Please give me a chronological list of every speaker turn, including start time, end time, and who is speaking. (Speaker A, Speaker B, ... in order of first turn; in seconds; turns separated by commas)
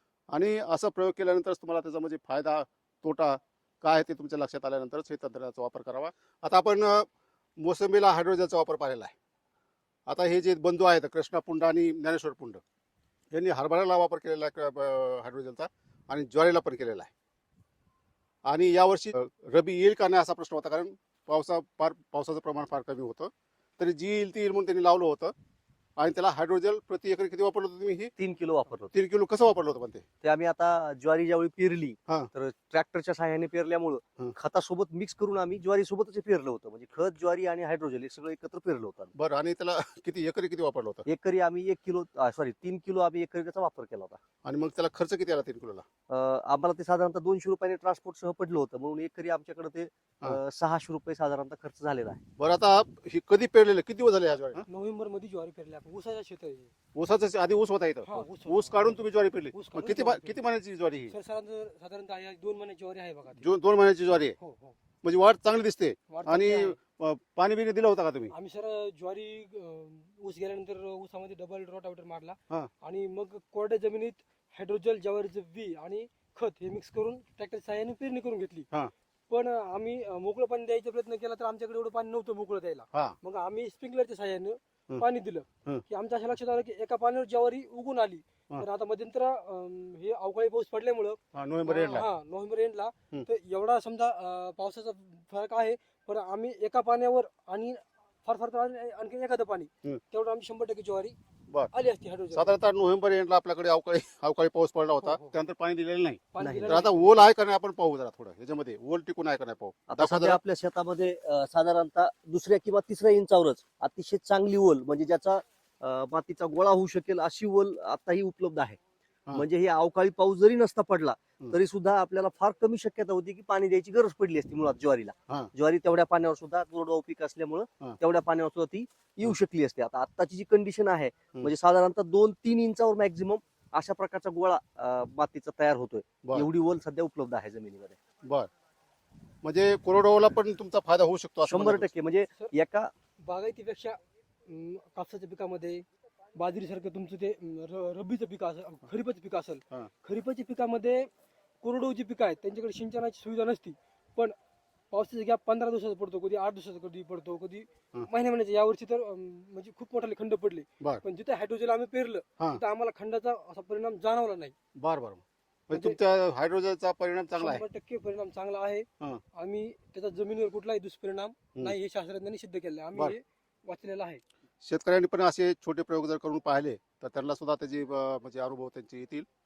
Speaker A: 0.3-7.1, Speaker A: 7.6-9.1, Speaker A: 10.1-12.6, Speaker A: 13.3-17.1, Speaker A: 18.5-25.3, Speaker A: 26.0-28.1, Speaker B: 28.2-28.9, Speaker A: 28.9-30.1, Speaker B: 30.2-39.1, Speaker A: 39.1-41.1, Speaker B: 41.1-44.2, Speaker A: 44.4-45.8, Speaker B: 46.1-52.2, Speaker A: 52.4-54.7, Speaker C: 54.7-56.7, Speaker A: 57.0-61.1, Speaker C: 58.0-60.4, Speaker C: 61.1-63.5, Speaker A: 63.4-64.4, Speaker C: 64.4-64.8, Speaker A: 65.0-68.3, Speaker C: 66.1-66.8, Speaker C: 68.3-78.7, Speaker C: 79.3-101.2, Speaker A: 91.3-92.1, Speaker C: 101.7-102.6, Speaker A: 102.3-110.4, Speaker C: 105.0-105.4, Speaker C: 106.3-107.3, Speaker B: 106.4-106.8, Speaker B: 109.9-118.8, Speaker B: 119.3-138.0, Speaker A: 136.2-136.5, Speaker A: 138.2-138.5, Speaker A: 139.4-141.9, Speaker B: 141.4-142.9, Speaker C: 143.2-151.1, Speaker C: 151.6-154.3, Speaker C: 154.9-164.5, Speaker A: 164.8-167.6, Speaker C: 165.7-166.0, Speaker C: 167.3-174.2, Speaker A: 174.6-179.3